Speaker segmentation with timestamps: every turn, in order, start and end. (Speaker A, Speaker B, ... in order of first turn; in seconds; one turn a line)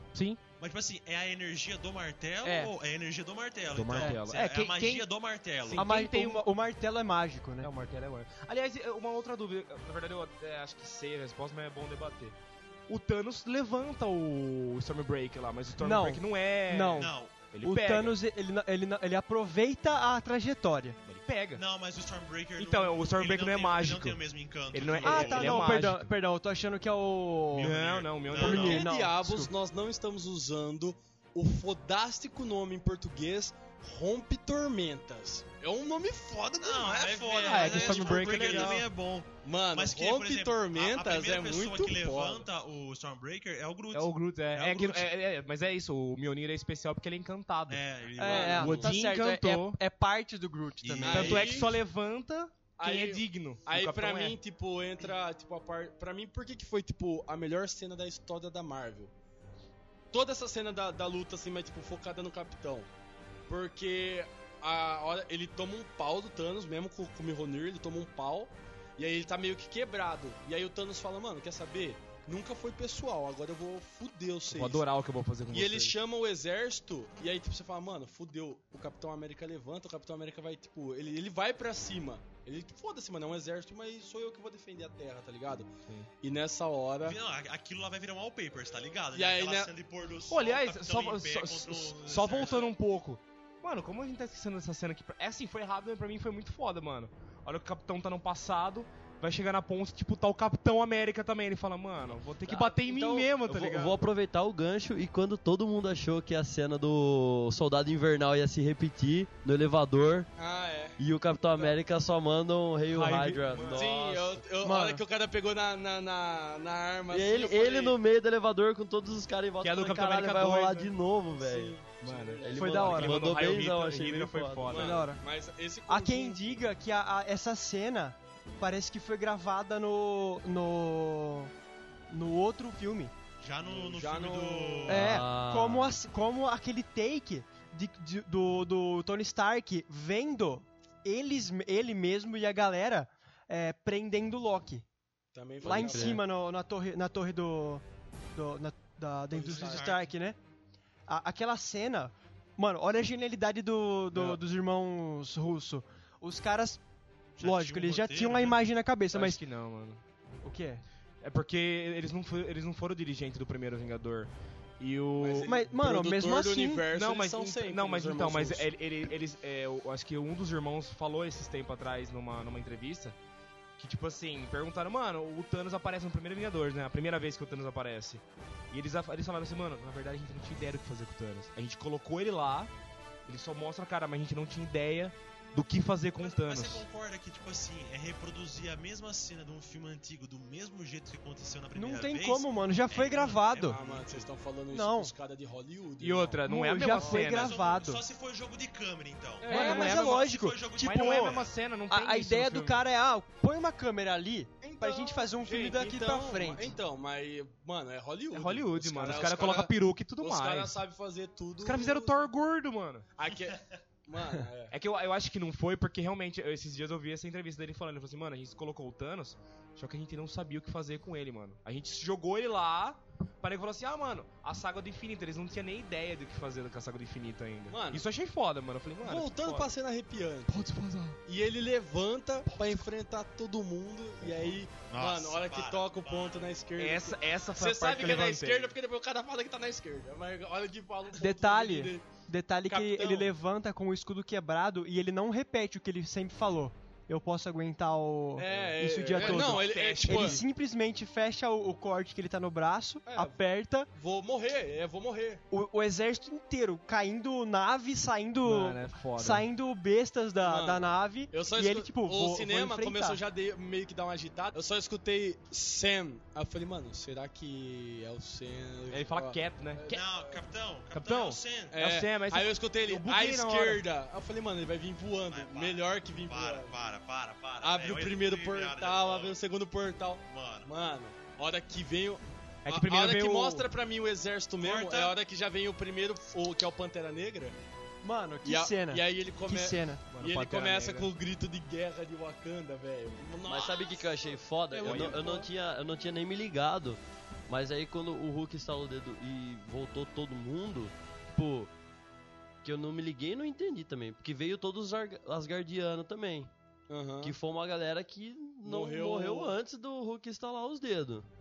Speaker A: 0.1-0.4
Speaker B: 0.6-5.9
Speaker A: 2.4-2.7
Speaker A: 3.7-5.1
Speaker A: 5.6-6.4
Speaker C: 5.8-7.7
Speaker A: 7.6-12.3
Speaker A: 12.9-18.2
Speaker C: 15.8-21.0
Speaker B: 16.9-17.4
Speaker A: 21.1-21.6
Speaker B: 21.5-25.8
Speaker A: 22.6-24.2
Speaker A: 24.7-26.1
Speaker C: 25.0-27.8
Speaker B: 27.5-28.8
Speaker A: 27.6-28.8
Speaker C: 28.3-29.5
Speaker D: 28.4-38.9
Speaker B: 36.5-45.1
Speaker C: 37.5-38.8
Speaker D: 39.4-42.5
Speaker A: 43.9-47.8
Speaker B: 47.7-48.9
Speaker C: 48.2-51.5
Speaker D: 48.2-48.8
Speaker A: 48.4-49.8
Speaker B: 50.8-51.7
Speaker D: 51.0-51.7
Speaker A: 51.1-54.4
Speaker D: 52.8-59.1
Speaker D: 60.1-62.9
Speaker D: 63.5-74.8
Speaker A: 74.5-76.0
Speaker D: 75.5-85.7
Speaker D: 86.2-87.2
Speaker B: 87.0-92.7
Speaker D: 89.1-89.7
Speaker A: 90.3-104.0
Speaker D: 102.6-103.3
Speaker E: 103.5-110.3
Speaker D: 110.3-111.0
Speaker E: 111.0-114.4
Speaker A: 112.9-114.0
Speaker D: 113.6-118.0
Speaker C: 114.6-115.0
Speaker E: 117.1-121.8
Speaker A: 119.6-120.9
Speaker D: 121.4-122.9
Speaker A: 122.0-125.0
Speaker E: 122.4-124.8
Speaker C: 122.5-123.2
Speaker D: 124.7-126.6
Speaker C: 124.7-125.2
Speaker C: 125.9-131.5
Speaker C: 132.1-133.1
Speaker B: 133.4-135.2
Speaker D: 133.6-135.1
Speaker C: 134.9-144.8
Speaker E: 134.9-136.0
Speaker D: 145.3-146.2
Speaker C: 145.6-147.8
Speaker E: 145.6-146.2
Speaker C: 148.3-150.4
Speaker D: 149.3-149.9
Speaker B: 149.4-150.1
Speaker C: 151.1-156.8
Speaker A: 154.1-154.4
Speaker B: 157.4-158.6
Speaker C: 157.4-159.4
Speaker A: 159.1-160.0
Speaker C: 160.4-160.8
Speaker A: 161.2-165.5
Speaker D: 165.2-168.7
Speaker C: 165.4-166.8
Speaker A: 166.9-173.2
Speaker A: 173.8-182.7
Speaker A: 183.3-186.8
Speaker B: 186.2-194.3
Speaker C: 191.7-193.8
Speaker D: 193.7-197.2
Speaker C: 194.7-195.1
Speaker A: 196.0-197.5
Speaker C: 196.4-198.0
Speaker B: 197.2-201.5
Speaker D: 199.4-199.9
Speaker A: 199.4-202.8
Speaker C: 199.5-206.8
Speaker D: 204.6-212.3
Speaker A: 208.3-210.8
Speaker A: 211.6-213.1
Speaker D: 213.2-214.7
Speaker A: 214.7-229.7
Speaker D: 227.7-228.0
Speaker D: 229.0-230.6
Speaker A: 230.5-231.2
Speaker D: 231.2-242.1
Speaker A: 232.5-232.8
Speaker B: 234.8-236.7
Speaker A: 236.8-238.8
Speaker C: 241.1-253.9
Speaker D: 242.7-243.3
Speaker D: 248.3-250.4
Speaker A: 248.4-250.4
Speaker D: 253.1-253.4
Speaker D: 253.9-255.4
Speaker C: 255.5-263.2
Speaker A: 258.4-259.4
Speaker D: 260.4-270.4
Speaker A: 268.9-270.0
Speaker B: 269.9-271.8
Speaker A: 270.9-273.8
Speaker D: 271.7-276.7
Speaker B: 275.3-279.4
Speaker D: 277.6-287.6
Speaker B: 280.2-280.7
Speaker A: 282.6-283.7
Speaker B: 284.6-285.2
Speaker C: 288.0-290.0
Speaker D: 288.4-295.5
Speaker A: 290.1-291.1
Speaker E: 293.4-301.7
Speaker A: 294.8-295.2
Speaker E: 302.6-306.5
Speaker D: 306.9-307.3
Speaker E: 307.2-311.2
Speaker D: 308.6-309.6